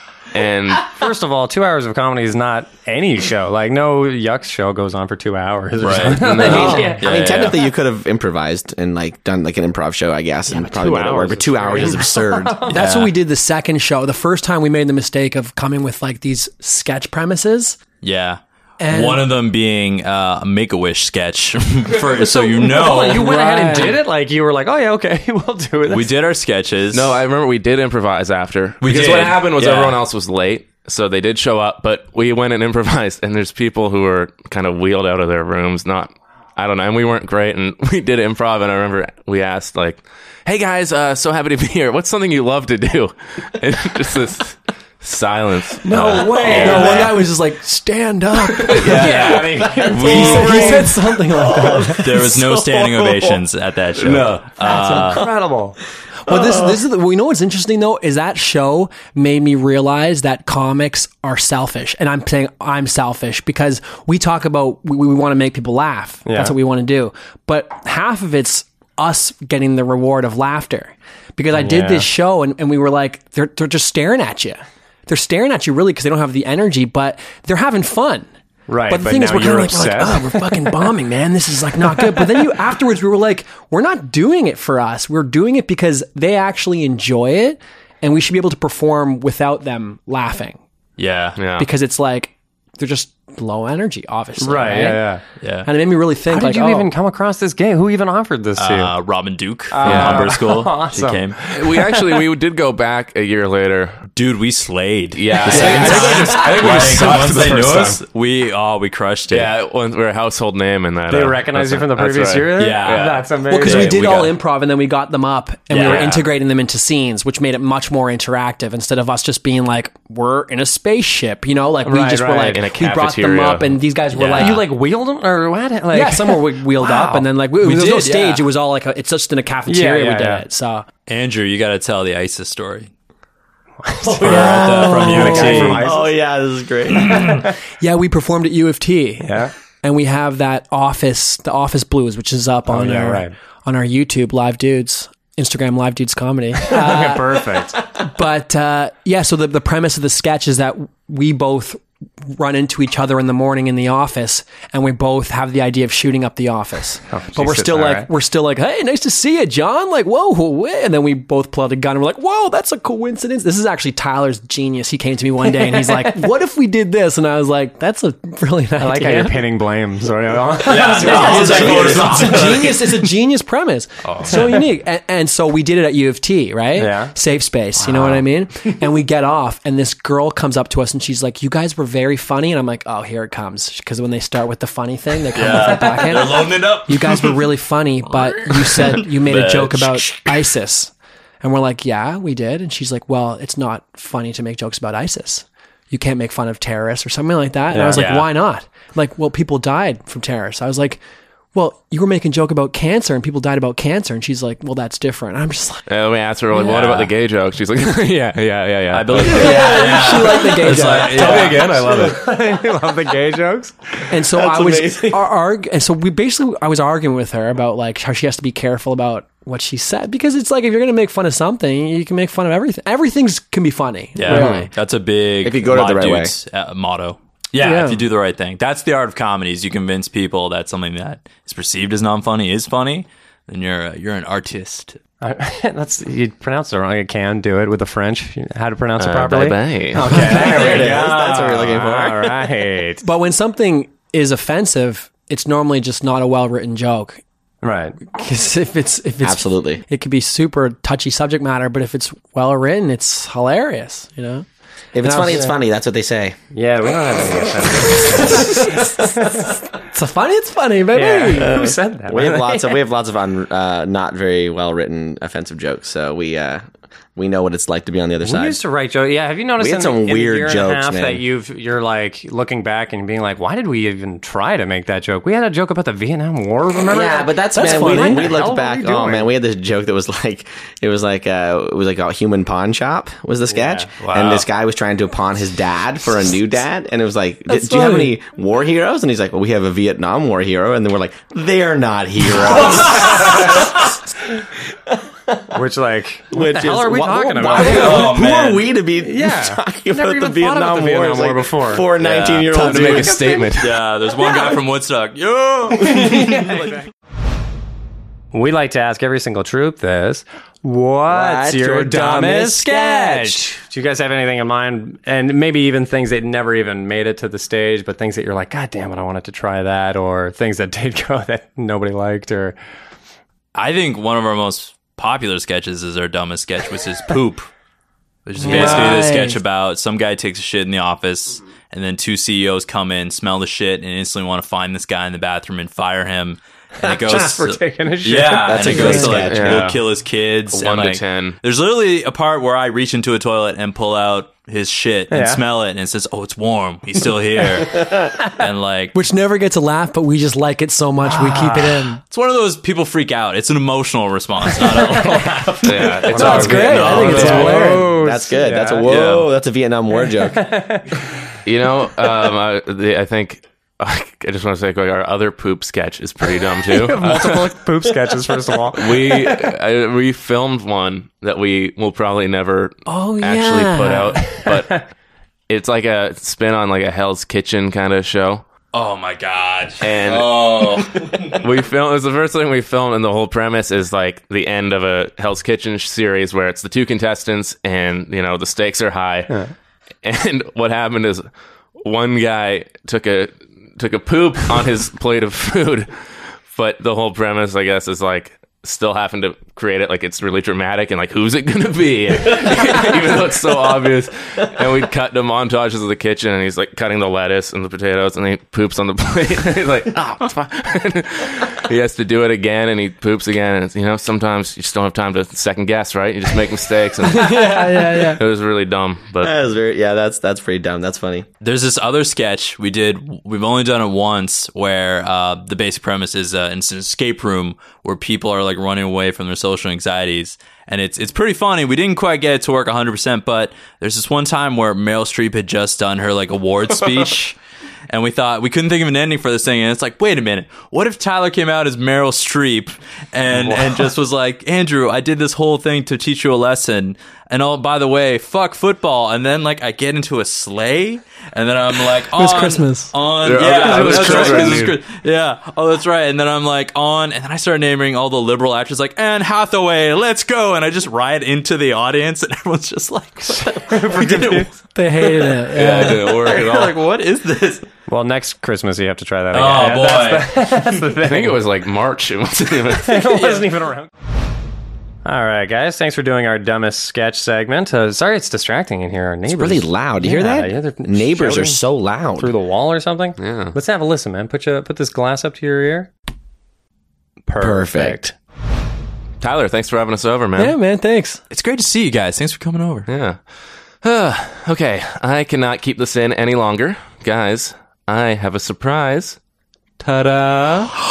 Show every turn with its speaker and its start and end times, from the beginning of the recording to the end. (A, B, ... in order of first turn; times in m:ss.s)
0:00.3-0:00.9 A
0:00.9-0:07.1 B
0:05.8-0:07.7 C
0:06.3-0:12.6 D
0:10.5-0:12.8 B
0:12.7-0:17.8 E
0:12.7-0:13.1 C
0:18.0-0:23.3 C
0:18.8-0:19.3 E
0:21.9-0:26.1 B
0:23.1-0:24.0 E
0:25.9-0:27.1 C
0:26.9-0:47.1 A
0:28.8-0:30.0 C
0:45.8-0:52.3 E
0:46.0-0:47.1 B
0:46.5-0:46.9 C
0:48.7-0:50.9 C
0:48.7-0:51.1 B
0:48.8-0:49.2 A
0:51.6-0:53.3 D
0:52.0-0:55.2 C
0:54.0-0:54.4 A
0:54.6-0:55.8 B
0:55.0-0:55.2 D
0:56.2-1:18.3 E
0:56.3-0:56.7 D
1:06.2-1:06.5 B
1:11.5-1:12.1 B
1:18.7-1:20.7 B
1:18.9-1:30.6 E
1:31.0-1:31.4 C
1:31.4-1:31.7 A
1:31.6-1:35.1 E
1:34.4-1:35.2 B
1:35.4-1:35.7 C
1:35.6-1:36.9 E
1:36.3-1:38.9 B
1:38.6-1:41.4 C
1:39.7-1:41.5 B
1:39.8-1:40.3 A
1:41.5-1:44.0 A
1:44.1-1:49.5 C
1:45.1-1:48.0 A
1:45.5-1:46.5 B
1:45.5-1:46.6 E
1:49.3-1:53.2 A
1:51.1-1:54.0 B
1:52.6-1:54.2 C
1:53.5-2:04.7 E
1:54.0-1:54.3 A
1:55.7-1:56.1 C
1:55.8-1:56.2 A
2:01.9-2:02.6 B
2:02.2-2:03.8 A
2:04.1-2:04.6 C
2:04.3-2:07.3 B
2:05.9-2:10.8 E
2:07.6-2:08.5 C
2:09.6-2:10.4 B
2:11.1-2:12.9 C
2:13.8-2:16.1 B
2:14.0-2:15.8 E
2:14.2-2:15.8 C
2:14.2-2:17.2 D
2:17.0-2:17.4 C
2:17.1-2:17.5 B
2:17.8-2:49.4 E
2:19.2-2:19.5 B
2:22.7-2:23.3 B
2:26.6-2:27.8 B
2:37.1-2:38.1 B
2:45.5-2:46.1 B
2:48.8-2:52.7 B
2:50.6-2:52.8 C
2:50.9-3:21.0 E
2:51.3-2:52.2 A
2:54.2-2:54.6 B
2:56.8-2:57.1 B
2:57.8-2:58.2 B
3:05.3-3:07.4 C
3:08.1-3:10.2 C
3:17.7-3:18.1 B
3:17.9-3:18.2 A
3:21.5-3:25.8 E
3:25.9-3:29.7 A
3:26.5-3:27.0 E
3:28.9-3:32.1 C
3:29.2-3:31.8 E
3:29.6-3:29.9 D
3:30.7-3:33.7 B
3:31.7-3:32.1 A
3:34.1-3:44.7 E
3:34.2-3:35.2 D
3:44.1-3:55.0 C
3:44.3-3:44.7 D
3:45.4-3:46.3 D
3:47.6-3:48.0 E
3:55.2-4:03.0 B
3:59.0-4:00.1 A
4:00.0-4:02.5 D
4:00.1-4:00.9 E
4:03.0-4:07.2 E
4:07.6-4:08.0 B
4:08.0-4:14.4 E
4:09.2-4:09.8 D
4:14.9-4:16.4 D
4:15.0-4:15.5 E
4:16.5-4:19.5 B
4:18.1-4:21.6 E
4:20.9-4:22.8 B
4:21.4-4:26.6 D
4:27.2-4:28.6 D
4:28.2-4:39.3 B
4:29.6-4:31.2 D
4:36.8-4:54.0 D
4:37.5-4:38.4 E
4:43.5-4:43.9 B
4:44.0-4:44.4 C
4:47.5-4:48.1 E
4:52.6-4:53.4 C
4:54.9-4:55.6 D
4:55.5-4:58.2 B
4:56.3-5:03.5 D
4:57.5-4:58.6 C
4:59.0-5:01.9 B
5:02.0-5:06.7 C
5:02.5-5:03.8 A
5:05.8-5:06.7 B
5:08.3-5:22.6 B
5:11.1-5:13.5 D
5:23.5-5:27.5 C
5:28.2-5:48.9 C
5:28.4-5:29.4 E
5:28.5-5:28.8 D
5:36.9-5:39.1 B
5:38.4-5:39.7 D
5:38.7-5:39.1 E
5:39.2-5:39.8 A
5:40.5-5:41.4 A
5:45.1-5:45.4 B
5:47.8-5:48.0 D
5:48.9-5:52.0 E
5:51.1-5:51.8 B
5:52.0-5:55.7 C
5:54.9-5:55.5 B
5:55.6-5:57.6 A
5:56.1-5:58.9 B
5:56.1-5:57.9 E
5:56.2-6:00.6 D
5:56.9-5:57.4 C
5:58.8-5:59.3 C
6:00.0-6:01.0 B
6:01.4-6:07.5 A
6:06.6-6:09.3 B
6:08.7-6:14.8 A
6:12.8-6:14.4 E
6:14.4-6:14.8 B
6:15.5-6:18.4 A
6:18.7-6:21.4 C
6:19.8-6:29.4 A
6:30.0-6:31.3 A
6:31.8-6:35.9 A
6:36.5-6:59.3 A
6:57.0-6:58.2 E
6:59.2-7:01.2 D
7:01.4-7:17.4 C
7:17.9-7:47.6 C
7:23.4-7:23.8 B
7:32.1-7:32.9 E
7:33.2-7:34.8 A
7:33.4-7:34.7 B
7:43.4-7:44.5 B
7:44.7-7:46.2 E
7:45.5-7:46.8 A
7:47.9-7:51.4 B
7:49.3-7:50.7 C
7:51.0-7:53.2 A
7:52.8-7:53.9 B
7:55.0-8:01.6 B
7:59.2-8:02.3 D
8:02.2-8:05.9 B
8:03.2-8:03.6 A
8:07.2-8:08.1 B
8:07.4-8:08.0 D
8:09.2-8:10.6 A
8:10.4-8:11.2 E
8:11.3-8:12.9 C
8:12.9-8:13.2 A
8:13.8-8:19.2 A
8:19.8-8:20.7 A